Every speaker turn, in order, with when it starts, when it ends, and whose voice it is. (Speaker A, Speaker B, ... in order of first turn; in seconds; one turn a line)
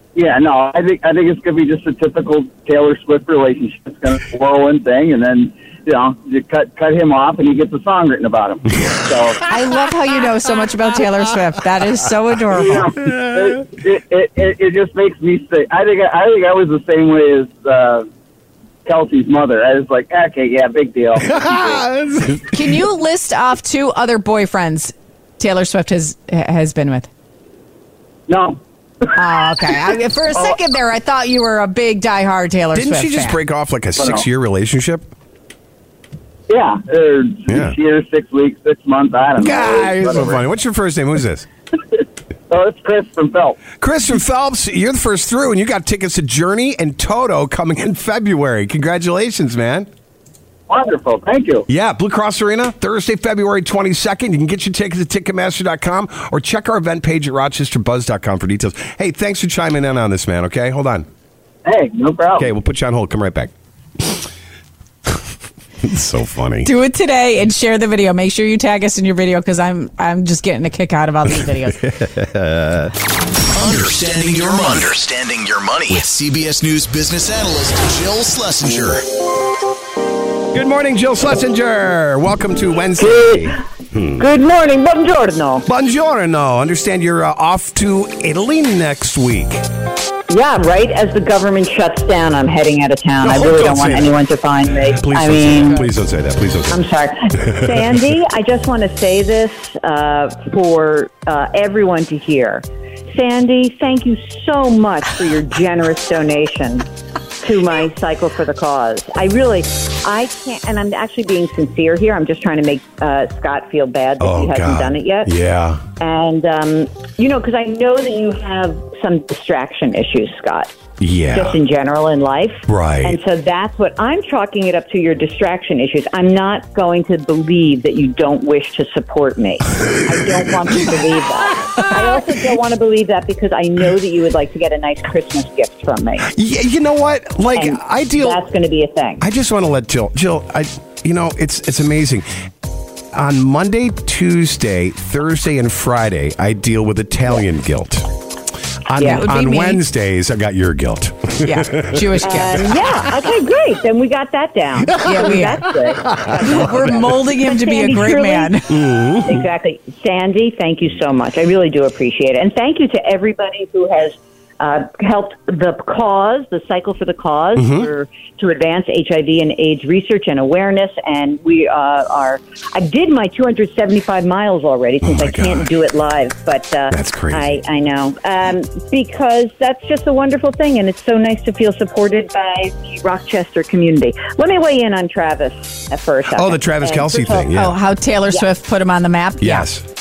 Speaker A: 0.1-9.4
Speaker B: 9.5-12.9
Speaker A: 12.6-18.1
Speaker C: 13.0-13.6
Speaker A: 18.9-21.8
Speaker C: 21.2-22.7
Speaker B: 22.5-27.1
Speaker A: 28.3-28.6
Speaker B: 29.2-33.4
Speaker C: 32.7-35.1
Speaker A: 34.0-34.2
Speaker A: 36.5-40.4
Speaker C: 37.5-37.8
Speaker C: 39.4-41.5
Speaker A: 42.5-43.6
Speaker C: 43.8-49.9
Speaker A: 50.7-51.7
Speaker C: 51.7-61.1
Speaker A: 61.6-62.5
Speaker C: 62.4-64.3
Speaker C: 65.8-66.7
Speaker B: 66.6-71.8
Speaker C: 71.7-73.0
Speaker D: 73.5-79.0
Speaker C: 80.5-84.3
Speaker E: 83.1-83.5
Speaker E: 84.2-85.7
Speaker C: 85.7-89.7
Speaker E: 90.3-95.9
Speaker C: 93.2-96.8
Speaker E: 96.7-106.9
Speaker C: 97.4-97.9
Speaker E: 107.4-115.3
Speaker C: 114.2-115.8
Speaker E: 116.0-120.7
Speaker C: 121.0-121.6
Speaker E: 121.3-136.3
Speaker C: 122.7-123.2
Speaker C: 130.1-131.0
Speaker C: 131.7-132.3
Speaker C: 136.2-138.4
Speaker E: 137.5-139.2
Speaker C: 139.2-142.3
Speaker C: 143.1-148.1
Speaker C: 148.9-153.1
Speaker B: 149.0-149.8
Speaker B: 151.4-152.7
Speaker E: 152.2-158.6
Speaker C: 154.9-157.1
Speaker B: 155.0-155.7
Speaker B: 156.4-158.7
Speaker C: 158.7-159.4
Speaker E: 159.2-187.5
Speaker C: 167.6-167.9
Speaker C: 175.0-175.7
Speaker C: 176.9-177.6
Speaker C: 186.3-187.8
Speaker B: 187.5-189.7
Speaker C: 189.4-189.8